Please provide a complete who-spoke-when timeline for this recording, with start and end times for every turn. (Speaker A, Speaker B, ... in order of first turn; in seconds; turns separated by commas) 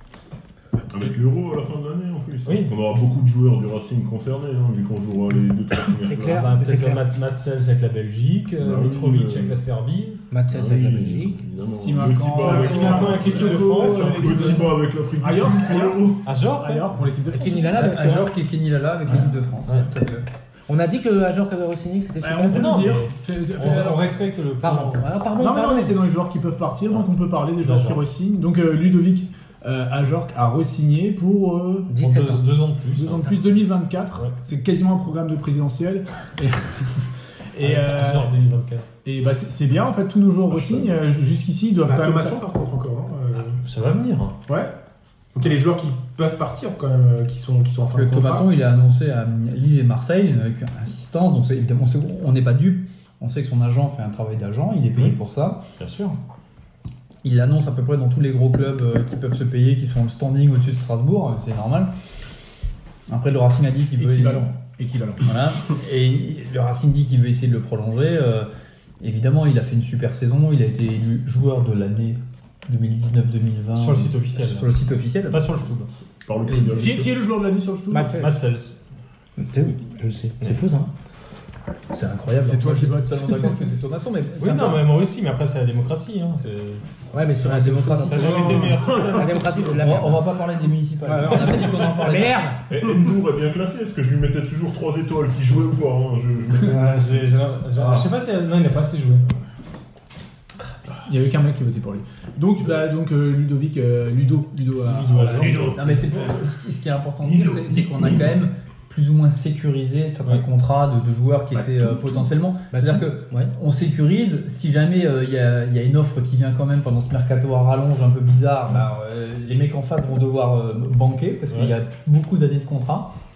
Speaker A: 0.9-6.5, Speaker B: 2.5-2.7, Speaker C: 6.0-7.0, Speaker B: 6.3-10.2, Speaker A: 8.6-9.6, Speaker C: 10.3-11.4, Speaker A: 10.5-16.2, Speaker D: 11.7-18.0, Speaker B: 12.3-14.7, Speaker B: 16.2-16.9, Speaker C: 17.3-18.3, Speaker E: 17.7-20.3, Speaker C: 20.7-22.7, Speaker D: 22.2-24.1, Speaker B: 22.5-25.1, Speaker C: 24.6-26.0, Speaker D: 25.4-31.9, Speaker B: 27.6-28.0, Speaker C: 31.9-32.5, Speaker B: 32.0-33.3, Speaker D: 32.9-38.3, Speaker B: 37.6-38.9, Speaker D: 39.0-42.4, Speaker A: 40.5-40.9, Speaker F: 41.8-43.6, Speaker B: 43.6-44.4, Speaker F: 44.5-44.7, Speaker F: 45.4-48.5, Speaker E: 47.9-55.6, Speaker B: 55.8-56.2, Speaker E: 57.2-61.9, Speaker E: 63.1-64.5, Speaker D: 64.0-65.3, Speaker E: 65.2-68.5, Speaker E: 69.0-75.4, Speaker B: 73.8-74.8, Speaker B: 75.3-75.9, Speaker A: 76.3-77.2, Speaker E: 76.5-77.0, Speaker D: 76.8-78.3, Speaker C: 77.9-78.4, Speaker B: 78.1-78.8, Speaker C: 79.4-80.9, Speaker E: 81.9-84.9, Speaker C: 82.1-82.4, Speaker D: 82.4-83.8, Speaker B: 84.4-87.0, Speaker C: 87.1-90.2, Speaker E: 87.4-88.9, Speaker B: 88.0-90.0, Speaker E: 89.7-92.4, Speaker C: 91.0-92.6, Speaker A: 92.7-97.2, Speaker B: 96.7-99.2, Speaker C: 96.7-97.0, Speaker A: 97.8-98.1, Speaker D: 101.1-106.0, Speaker B: 104.9-105.8, Speaker A: 105.3-105.8, Speaker E: 105.5-123.1, Speaker D: 111.6-112.2, Speaker C: 112.7-113.5, Speaker B: 121.5-121.8